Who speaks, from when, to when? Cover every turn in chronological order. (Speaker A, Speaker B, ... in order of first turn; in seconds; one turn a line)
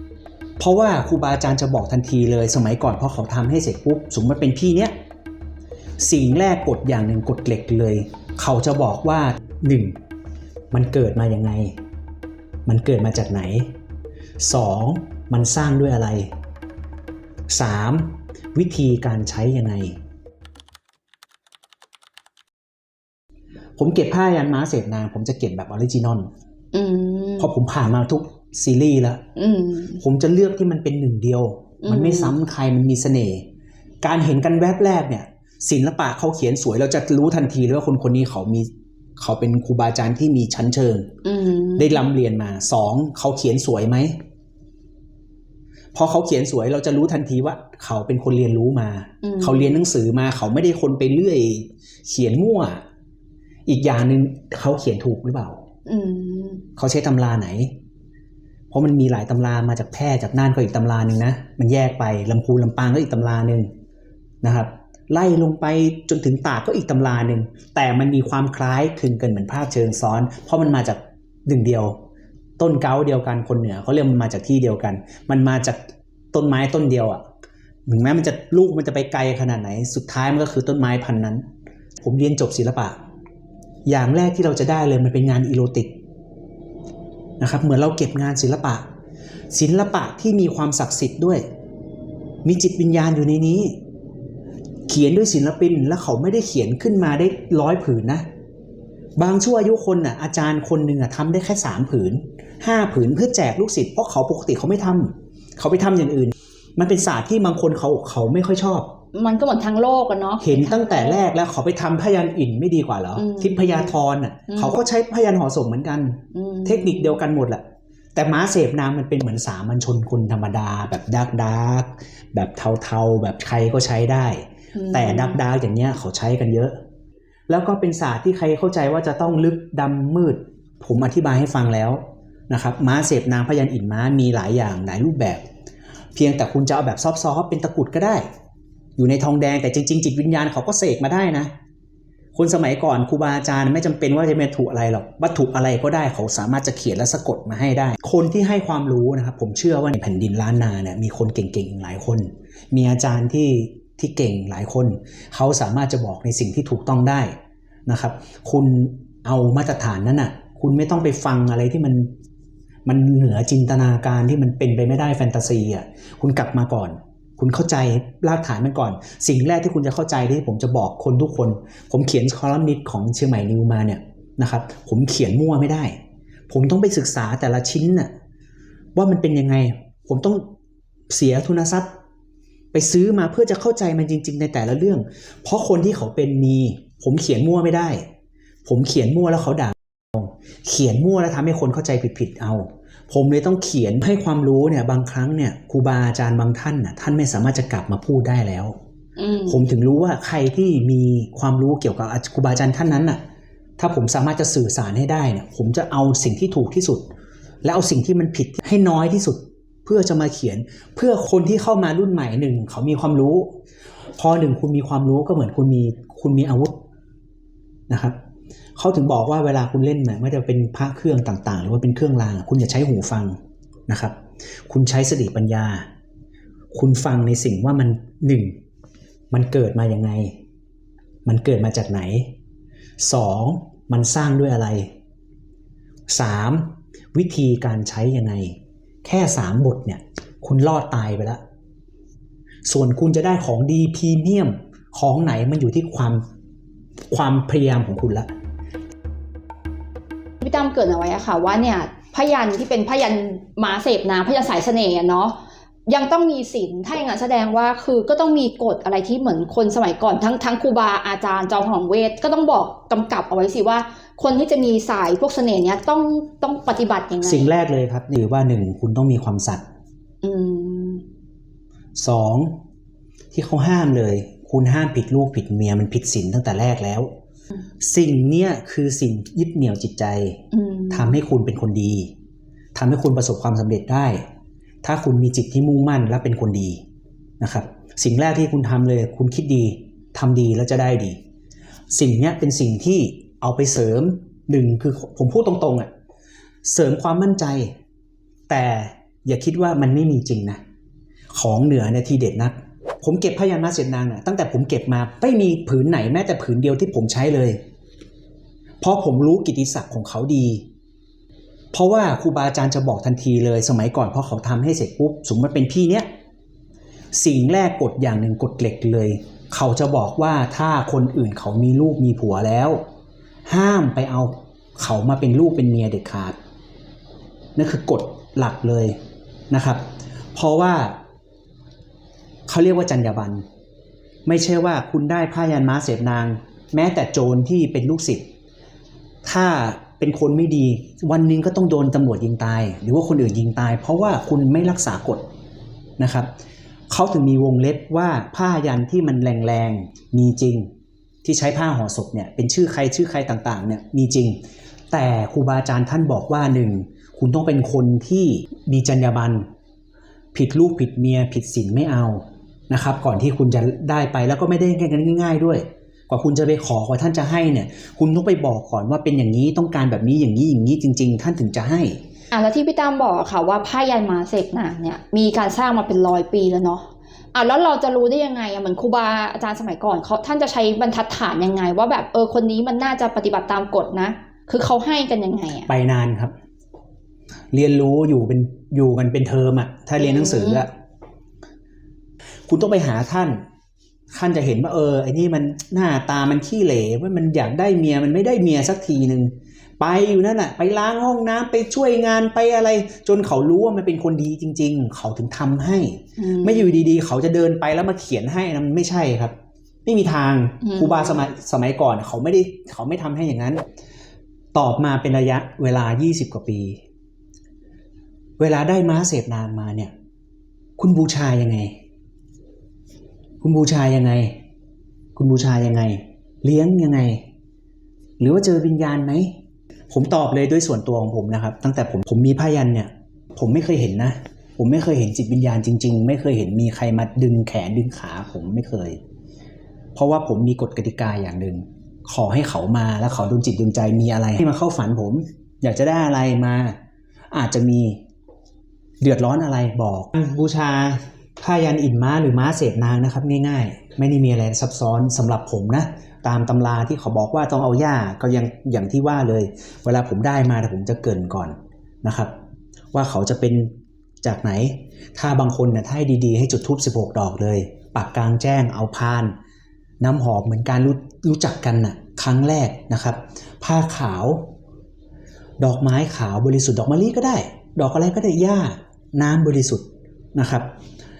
Speaker A: 0.6-4.9
Speaker A: 6.0-10.0
Speaker A: 10.7-11.8
Speaker A: 12.7-13.7
Speaker A: 14.4-16.3
Speaker A: 17.5-20.0
Speaker A: 23.8-26.3
Speaker B: 26.7-27.5
Speaker A: 27.4-29.2
Speaker B: 29.4-30.0
Speaker A: 30.0-33.5
Speaker B: 31.8-32.3
Speaker A: 34.0-41.1
Speaker B: 41.2-41.9
Speaker A: 41.8-44.1
Speaker A: 45.9-52.8
Speaker B: 49.2-49.8
Speaker A: 53.7-55.6
Speaker B: 55.9-56.6
Speaker A: 56.8-57.8
Speaker A: 58.7-63.7
Speaker A: 64.4-72.0
Speaker A: 72.6-77.2
Speaker A: 77.9-81.5
Speaker A: 82.0-83.0
Speaker A: 83.8-85.9
Speaker A: 87.4-88.8
Speaker A: 89.5-91.4
Speaker A: 92.4-93.8
Speaker A: 94.9-98.2
Speaker A: 99.2-108.9
Speaker B: 109.1-111.2
Speaker A: 110.4-117.6
Speaker B: 113.2-113.9
Speaker B: 114.5-114.8
Speaker B: 116.3-117.2
Speaker A: 118.1-126.8
Speaker B: 124.8-125.4
Speaker A: 127.5-135.4
Speaker A: 136.1-138.2
Speaker A: 139.0-141.5
Speaker A: 142.3-157.3
Speaker A: 157.9-162.1
Speaker A: 162.8-175.9
Speaker A: 176.5-178.1
Speaker A: 178.9-180.4
Speaker A: 181.1-181.9
Speaker A: 182.7-188.0
Speaker A: 188.6-198.8
Speaker B: 199.2-199.6
Speaker A: 199.5-203.2
Speaker A: 203.8-207.1
Speaker A: 207.6-213.6
Speaker A: 214.2-216.8
Speaker A: 217.9-218.2
Speaker A: 218.8-224.2
Speaker A: 224.7-225.9
Speaker A: 226.7-228.6
Speaker A: 229.3-230.4
Speaker A: 231.2-232.3
Speaker A: 233.0-234.9
Speaker A: 236.1-241.4
Speaker A: 242.7-246.2
Speaker A: 247.1-248.3
Speaker B: 250.4-255.3
Speaker B: 255.9-267.5
Speaker A: 267.2-269.6
Speaker B: 270.2-271.0
Speaker A: 271.9-272.6
Speaker A: 273.3-277.1
Speaker A: 277.8-282.1
Speaker B: 280.5-281.2
Speaker A: 282.7-284.2
Speaker A: 284.8-286.8
Speaker A: 287.4-291.2
Speaker A: 291.9-295.9
Speaker A: 296.6-297.7
Speaker A: 298.5-300.6
Speaker A: 301.3-307.6
Speaker A: 308.8-310.6
Speaker A: 311.7-316.1
Speaker A: 317.1-322.8
Speaker A: 323.5-326.4
Speaker A: 327.6-329.0
Speaker A: 329.5-331.0
Speaker A: 332.5-333.4
Speaker A: 334.2-338.2
Speaker A: 339.2-345.2
Speaker A: 346.0-346.3
Speaker A: 346.9-350.7
Speaker A: 351.2-354.4
Speaker A: 354.9-359.5
Speaker A: 360.3-372.0
Speaker B: 372.3-385.7
Speaker A: 385.7-386.3
Speaker A: 387.5-390.7
Speaker B: 390.0-390.6
Speaker A: 392.5-393.4
Speaker A: 394.1-413.6
Speaker B: 406.2-406.7
Speaker B: 410.6-411.2
Speaker A: 414.5-416.8
Speaker A: 418.4-419.9
Speaker A: 420.8-421.8
Speaker A: 423.4-424.4
Speaker A: 425.1-427.2
Speaker A: 428.2-429.3
Speaker A: 429.9-439.0
Speaker A: 439.9-446.8
Speaker A: 447.3-448.0
Speaker A: 449.0-462.3
Speaker A: 462.9-469.3
Speaker A: 470.0-474.5
Speaker A: 475.6-480.7